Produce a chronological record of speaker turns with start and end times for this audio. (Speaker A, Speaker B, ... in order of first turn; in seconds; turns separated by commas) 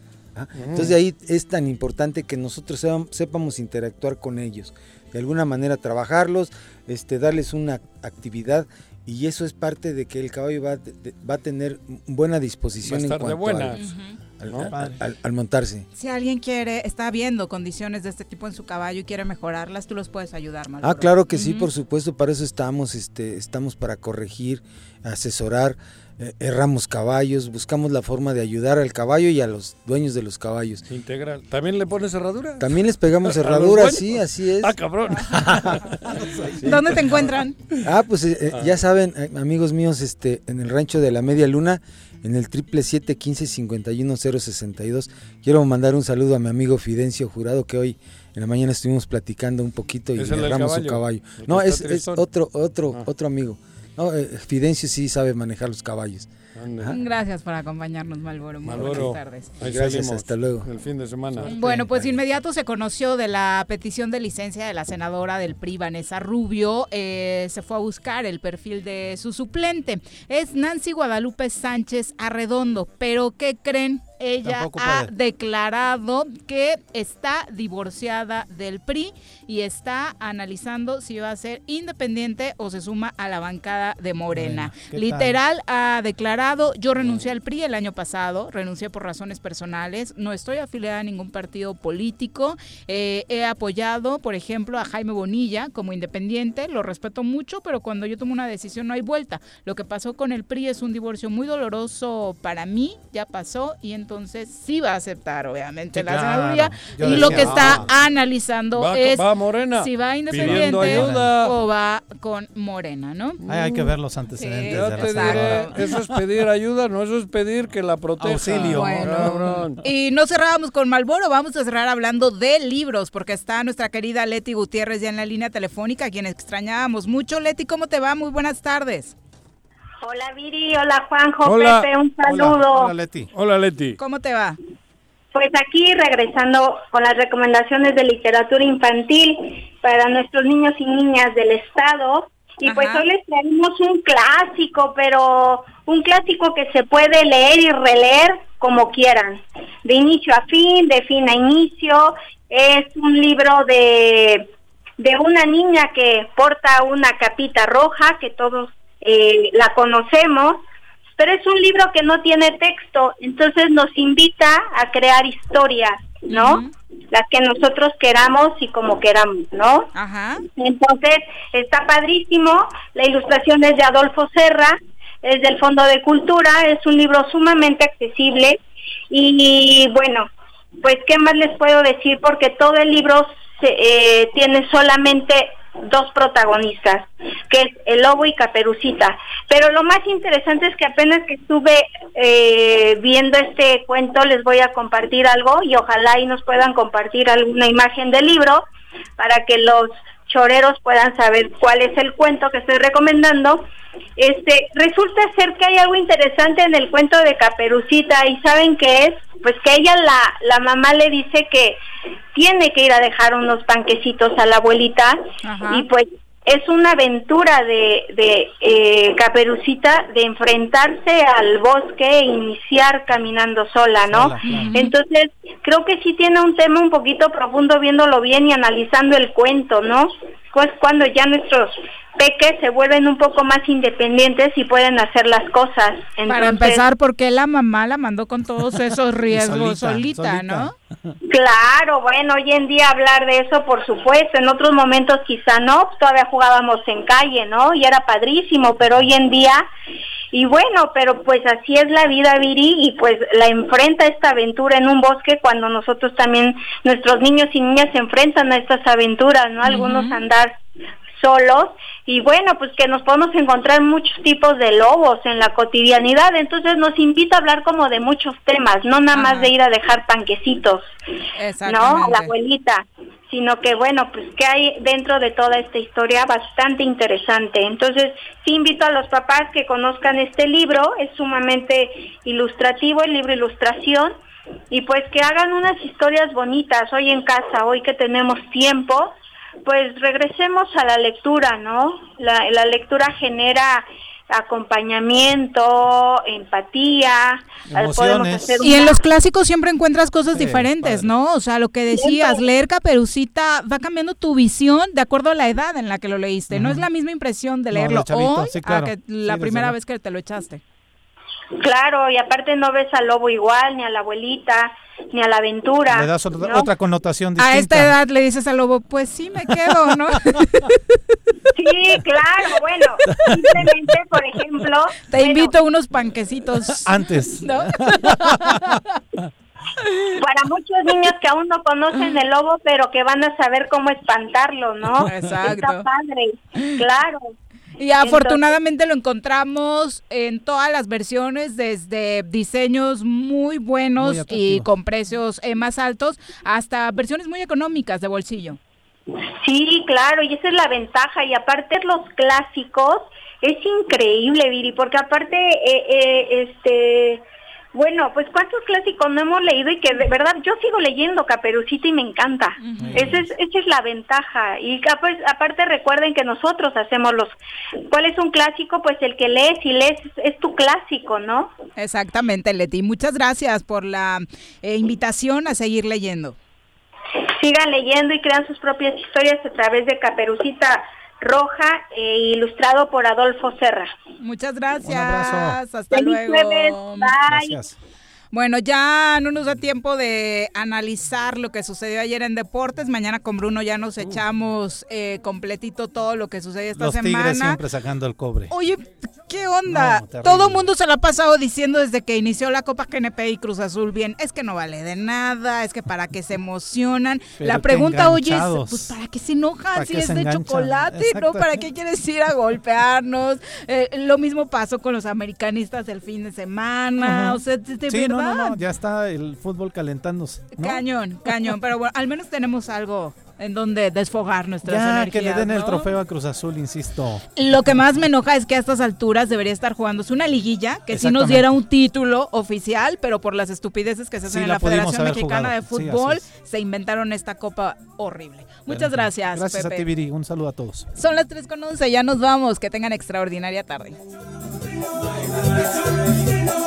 Speaker A: 0.3-13.8, Speaker B: 0.6-0.9, Speaker B: 12.8-13.8, Speaker C: 13.8-14.1, Speaker A: 14.4-15.8, Speaker B: 14.5-14.7, Speaker D: 14.7-15.0, Speaker C: 15.9-21.7, Speaker A: 20.8-30.8, Speaker B: 30.9-36.1, Speaker A: 32.6-34.7, Speaker D: 36.0-37.2, Speaker C: 36.6-37.5, Speaker A: 37.8-56.9, Speaker B: 50.2-52.2, Speaker B: 56.6-57.0, Speaker C: 56.9-59.5, Speaker B: 58.6-62.1, Speaker A: 58.8-59.1, Speaker A: 59.6-60.7, Speaker D: 61.4-61.9, Speaker C: 61.5-109.2, Speaker D: 74.4-75.1, Speaker D: 84.3-85.3, Speaker D: 105.9-107.9, Speaker B: 107.0-107.9, Speaker B: 108.8-111.5, Speaker C: 109.8-115.8, Speaker D: 110.3-111.3, Speaker D: 113.5-116.0, Speaker B: 114.7-119.8, Speaker D: 118.2-119.5, Speaker C: 118.7-129.1, Speaker E: 130.0-132.9, Speaker B: 131.4-131.9, Speaker D: 132.2-133.3, Speaker B: 133.3-134.0, Speaker C: 134.0-134.6, Speaker E: 135.3-154.5, Speaker C: 142.6-143.1, Speaker E: 155.0-160.6, Speaker E: 161.2-169.9, Speaker C: 166.3-166.7, Speaker C: 169.9-170.4, Speaker E: 170.6-178.6, Speaker E: 179.1-180.3, Speaker E: 180.8-198.6, Speaker E: 199.2-203.6, Speaker E: 204.2-211.8, Speaker E: 212.3-236.8, Speaker C: 215.4-215.8, Speaker D: 224.1-224.7, Speaker C: 224.4-224.9, Speaker C: 236.3-240.7, Speaker D: 239.3-241.1, Speaker E: 241.3-249.6, Speaker E: 250.3-260.5, Speaker C: 259.6-260.2, Speaker E: 261.2-270.8, Speaker C: 269.1-269.5, Speaker C: 271.4-272.3, Speaker E: 271.6-284.1, Speaker E: 284.7-289.1, Speaker E: 289.6-299.0, Speaker D: 297.7-298.8, Speaker C: 298.6-310.6, Speaker D: 300.3-301.1, Speaker E: 301.9-302.4, Speaker D: 306.5-306.9, Speaker D: 307.7-309.7, Speaker E: 311.6-316.7, Speaker D: 315.9-317.9, Speaker C: 317.4-320.8, Speaker E: 321.6-325.5, Speaker D: 323.1-323.8, Speaker C: 325.1-326.9, Speaker D: 326.7-329.2, Speaker C: 327.4-328.6, Speaker E: 330.2-337.2, Speaker C: 335.0-335.9, Speaker C: 337.8-348.6, Speaker E: 338.0-338.5, Speaker D: 344.0-344.7, Speaker E: 349.4-357.2, Speaker E: 357.7-367.4, Speaker C: 362.6-363.2, Speaker D: 362.8-363.3, Speaker E: 367.9-371.5, Speaker C: 371.8-376.4, Speaker E: 377.4-383.9, Speaker C: 384.2-387.1, Speaker D: 384.8-385.6, Speaker E: 385.9-387.6, Speaker D: 387.2-387.7, Speaker C: 388.3-397.6, Speaker D: 396.8-398.5, Speaker C: 398.5-418.6, Speaker D: 399.7-400.6, Speaker D: 407.4-408.9, Speaker D: 409.7-411.5, Speaker D: 417.0-420.8, Speaker C: 420.6-425.9, Speaker D: 424.6-427.2, Speaker C: 427.4-439.9, Speaker D: 430.9-431.5, Speaker D: 434.2-436.2, Speaker D: 438.7-440.9, Speaker C: 440.9-444.0